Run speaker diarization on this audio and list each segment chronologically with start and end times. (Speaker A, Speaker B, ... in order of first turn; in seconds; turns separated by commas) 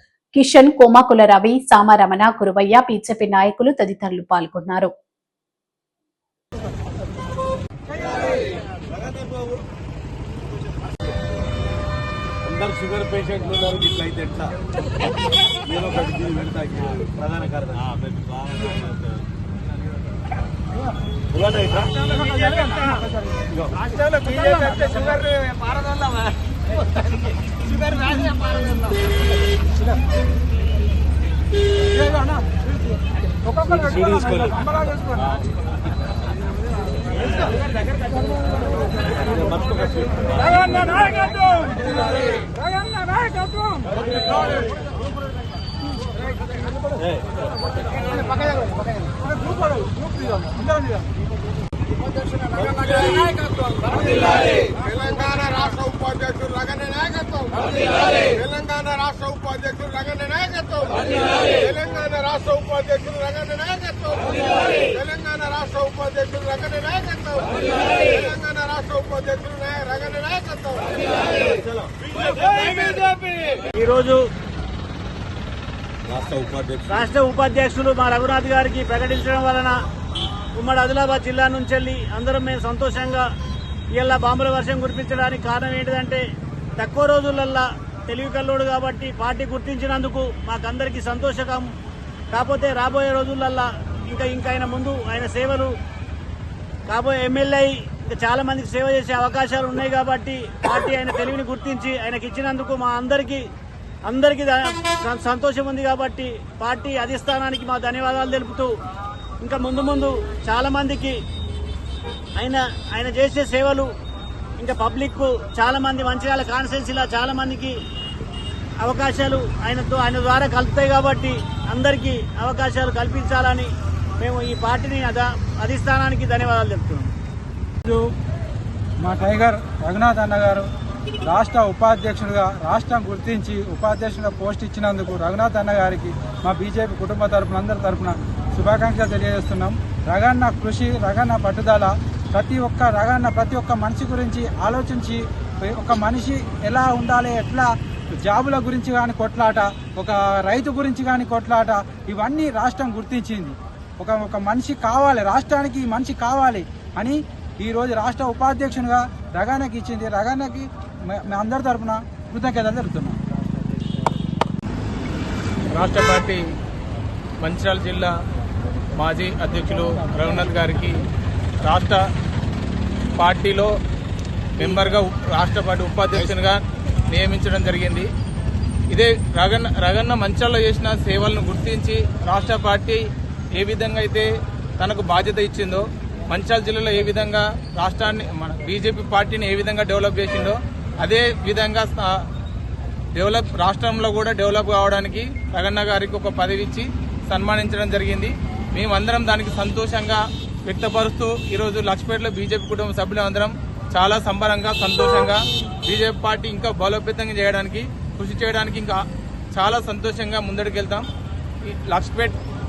Speaker A: 0.3-4.9, Speaker B: 8.2-9.6, Speaker B: 12.4-14.6, Speaker B: 15.7-19.2, Speaker B: 21.3-21.9, Speaker C: 21.9-23.5, Speaker D: 23.8-26.3, Speaker C: 24.2-25.1, Speaker D: 27.6-28.9, Speaker C: 31.9-32.6, Speaker C: 33.4-35.3, Speaker B: 33.9-34.5, Speaker B: 39.3-40.4, Speaker C: 40.4-43.9, Speaker C: 49.1-51.1, Speaker E: 52.3-71.2, Speaker B: 71.6-71.9, Speaker E: 72.1-73.2, Speaker D: 73.8-74.2, Speaker B: 76.1-77.0, Speaker D: 76.9-79.7, Speaker D: 80.6-83.3, Speaker D: 84.0-86.2, Speaker D: 86.8-91.7, Speaker D: 92.3-95.7, Speaker D: 96.9-103.4, Speaker D: 104.0-108.7, Speaker D: 109.4-111.2, Speaker D: 112.4-113.9, Speaker D: 114.6-117.7, Speaker D: 118.8-127.1, Speaker C: 129.0-130.7, Speaker C: 131.2-163.2, Speaker F: 165.7-166.4, Speaker F: 167.4-168.1, Speaker F: 168.9-171.0, Speaker F: 171.7-172.0, Speaker F: 173.2-173.7, Speaker F: 174.6-178.1, Speaker F: 178.9-183.0, Speaker F: 183.6-184.3, Speaker F: 184.8-192.1, Speaker F: 193.2-209.0, Speaker F: 209.5-211.1, Speaker F: 211.7-212.4